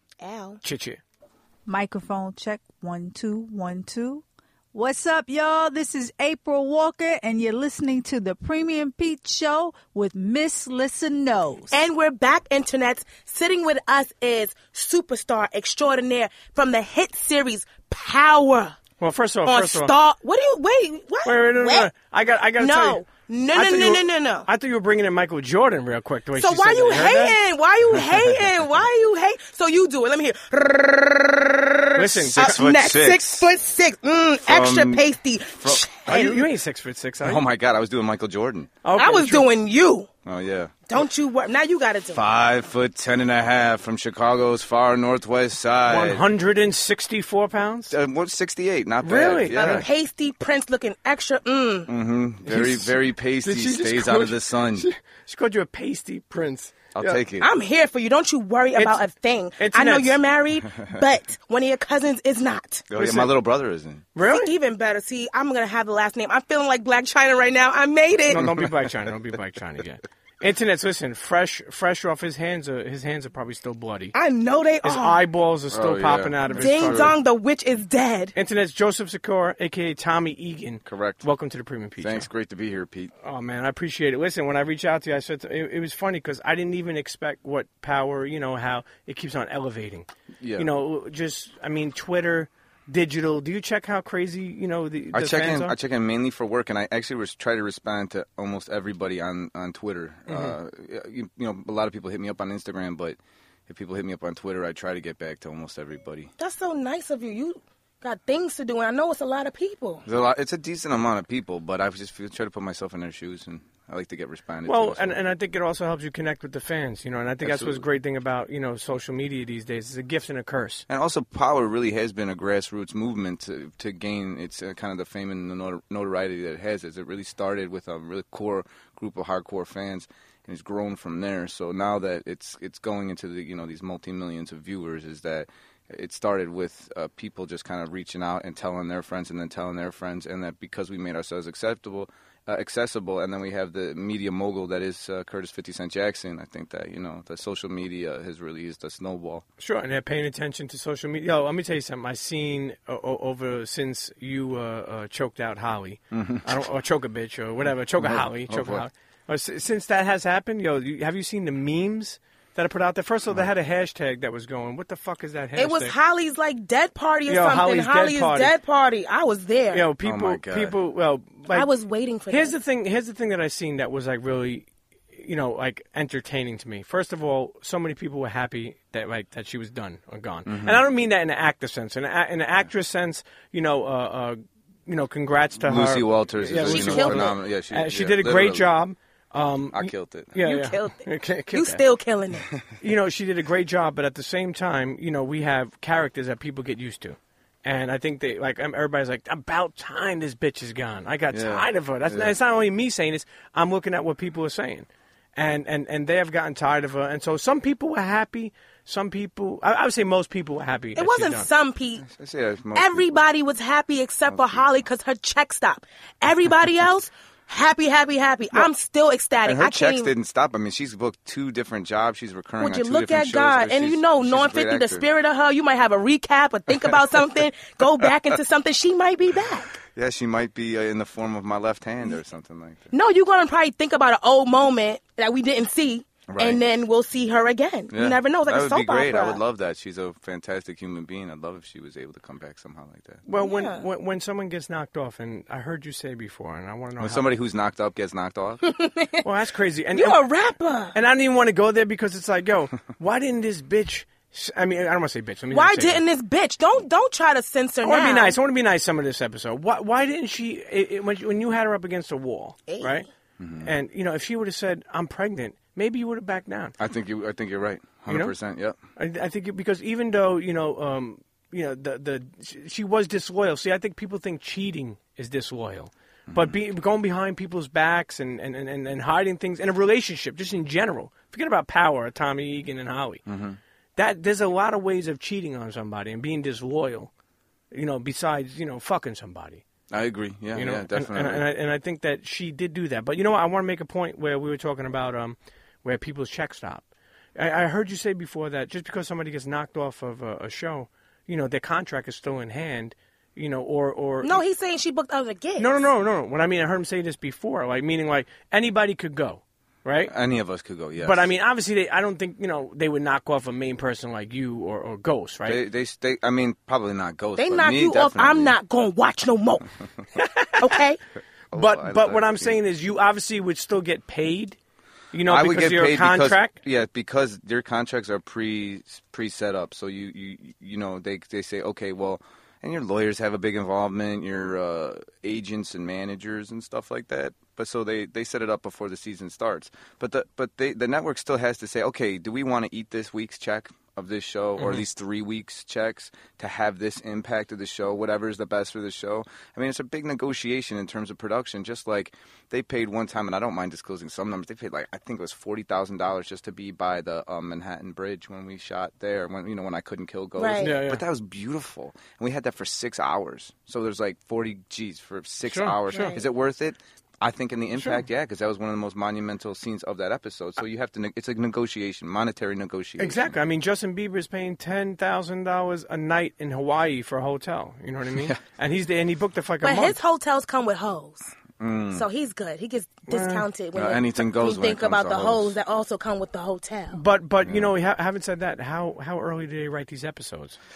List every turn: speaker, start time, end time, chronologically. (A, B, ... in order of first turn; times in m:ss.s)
0:00.2-0:00.6 A
0:00.6-0:01.0 B
0:01.7-0:11.7 C
0:11.7-0:18.8 A
0:19.0-0:19.9 B
0:19.5-0:21.9 A
0:21.2-0:23.0 B
0:22.6-0:24.5 A
0:23.5-0:27.4 B
0:26.4-0:36.5 A
0:32.0-0:32.7 B
0:32.3-0:33.4 D
0:34.4-0:35.0 D
0:36.1-0:37.4 B
0:37.2-0:38.7 D
0:38.8-0:39.5 B
0:39.0-0:40.1 A
0:40.2-0:40.8 D
0:40.9-0:42.2 A
0:42.1-0:46.2 D
0:45.9-0:47.9 B
0:47.9-0:49.9 D
0:49.0-0:49.9 B
0:49.5-0:51.9 A
0:51.9-0:54.9 D
0:52.5-0:57.2 B
0:57.0-0:57.5 D
0:57.4-1:02.9 A
0:58.8-0:59.0 B
0:59.6-1:00.2 B
1:02.9-1:04.1 D
1:03.0-1:03.3 B
1:04.2-1:04.5 B
1:04.2-1:08.4 A
1:08.3-1:14.1 B
1:08.4-1:08.7 D
1:14.1-1:15.2 A
1:14.8-1:17.1 B
1:15.7-1:17.1 D
1:16.5-1:18.3 A
1:18.4-1:22.3 B
1:20.8-1:21.2 D
1:22.0-1:23.1 D
1:23.2-1:35.8 B
1:30.4-1:30.7 D
1:35.1-1:46.3 D
1:40.3-1:40.6 B
1:46.4-1:50.0 A
1:50.1-1:55.2 D
1:54.6-2:00.9 B
1:57.4-1:57.8 D
2:00.9-2:29.4 D
2:29.6-2:45.9 B
2:36.1-2:36.5 D
2:38.0-2:38.9 D
2:45.6-2:49.9 A
2:47.3-2:48.5 B
2:49.7-2:51.7 B
2:50.0-2:50.8 D
2:51.5-2:52.5 A
2:52.3-3:11.8 B
3:00.5-3:00.8 D
3:05.6-3:08.7 D
3:06.6-3:07.4 A
3:09.7-3:10.4 D
3:10.4-3:12.5 A
3:12.8-3:31.5 B
3:21.3-3:22.3 D
3:31.0-3:32.1 A
3:32.0-3:33.2 D
3:32.8-3:40.1 A
3:34.3-3:34.6 D
3:39.4-3:45.0 D
3:42.6-3:49.8 A
3:49.9-3:52.9 D
3:52.9-3:59.4 A
3:56.3-3:56.6 D
3:57.9-4:03.2 D
4:03.3-4:07.2 B
4:03.4-4:03.8 A
4:07.0-4:08.6 D
4:08.6-4:09.2 A
4:09.2-4:10.2 B
4:09.9-4:11.0 A
4:10.9-4:16.0 B
4:15.5-4:18.4 A
4:17.8-4:23.1 B
4:22.7-4:23.0 A
4:23.4-4:23.7 D
4:23.6-4:26.8 B
4:26.8-4:28.8 D
4:28.1-4:28.4 B
4:29.0-4:43.2 B
4:36.3-4:36.6 D
4:43.3-4:43.6 D
4:44.0-4:47.1 B
4:47.7-4:49.6 B
4:49.9-4:51.4 D
4:50.6-5:04.4 B
5:04.2-5:05.8 A
5:05.6-5:10.1 B
5:10.1-5:11.3 D
5:11.0-5:15.6 B
5:15.4-5:18.6 D
5:17.4-5:19.7 A
5:20.2-5:20.8 B
5:20.6-5:21.0 A
5:21.5-5:22.6 D
5:21.5-5:24.6 B
5:25.1-5:26.6 B
5:25.3-6:13.3 D
6:00.4-6:00.7 A
6:00.6-6:01.0 B
6:05.5-6:06.2 B
6:05.9-6:06.2 A
6:07.8-6:08.0 B
6:13.0-6:20.0 B
6:19.6-6:21.3 A
6:21.6-6:22.0 D
6:21.9-6:27.0 A
6:23.1-6:23.5 B
6:23.8-6:25.6 D
6:26.9-6:30.6 B
6:27.4-6:27.7 D